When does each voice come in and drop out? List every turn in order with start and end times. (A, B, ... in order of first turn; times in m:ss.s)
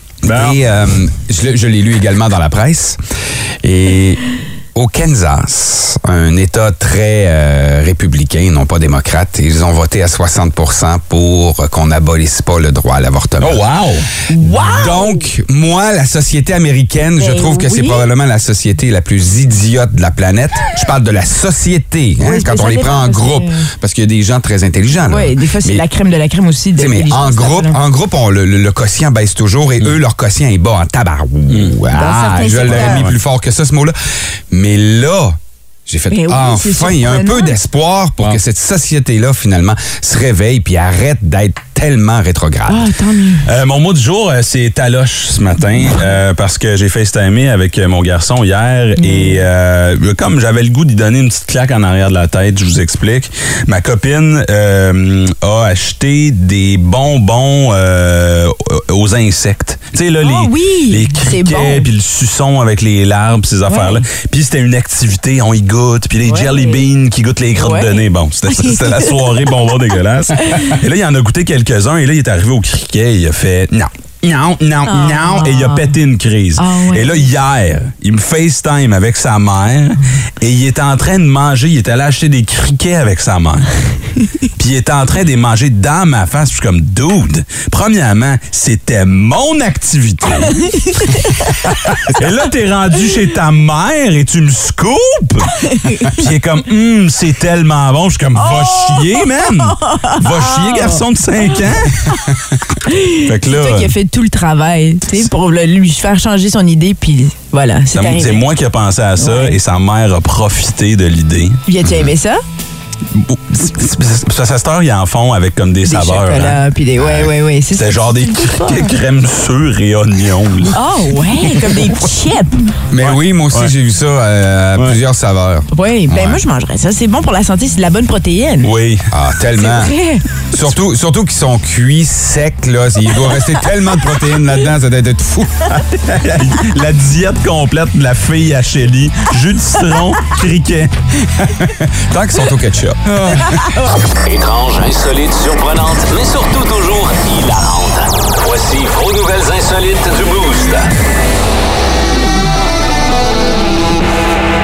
0:00.2-0:00.6 A
0:00.2-0:03.0 B
0:03.6-0:04.2 B
0:04.7-0:13.6 B
0:13.4-0:14.1 A
0:14.3-0:15.2 C
0:14.4-0:25.8 B
0:17.2-0:18.1 C
0:22.2-0:23.7 C
0:25.0-0:27.8 C
0:26.8-0:33.9 B
0:31.9-0:33.0 C
0:32.6-0:33.2 A
0:34.5-0:42.9 B
0:36.1-0:37.5 C
0:42.7-0:43.4 C
0:43.4-1:23.7 A
0:49.0-0:49.4 C
1:00.2-1:01.9 C
1:03.7-1:04.0 C
1:06.2-1:06.8 C
1:07.6-1:09.7 C
1:10.4-1:10.8 C
1:14.9-1:15.9 C
1:16.6-1:17.3 C
1:24.6-1:30.7 A
1:30.5-1:31.7 C
1:31.9-1:35.5 A
1:35.6-1:36.2 C
1:36.0-1:42.3 A
1:38.4-1:41.0 C
1:42.1-1:48.4 C
1:43.1-1:43.9 A
1:47.9-1:51.6 A
1:49.2-1:49.6 C
1:51.6-1:52.4 C
1:53.1-2:00.8 A
1:55.8-1:58.9 C
2:00.7-2:02.6 C
2:01.6-2:01.9 A
2:02.9-2:06.4 B
2:03.0-2:03.7 A
2:05.7-2:08.7 C
2:08.6-2:09.1 A
2:09.1-2:09.9 B
2:09.6-2:10.2 C
2:10.5-2:15.8 B
2:15.7-2:20.9 A
2:21.4-2:23.4 B
2:23.1-2:23.5 A
2:23.5-2:23.8 C
2:24.2-2:30.9 D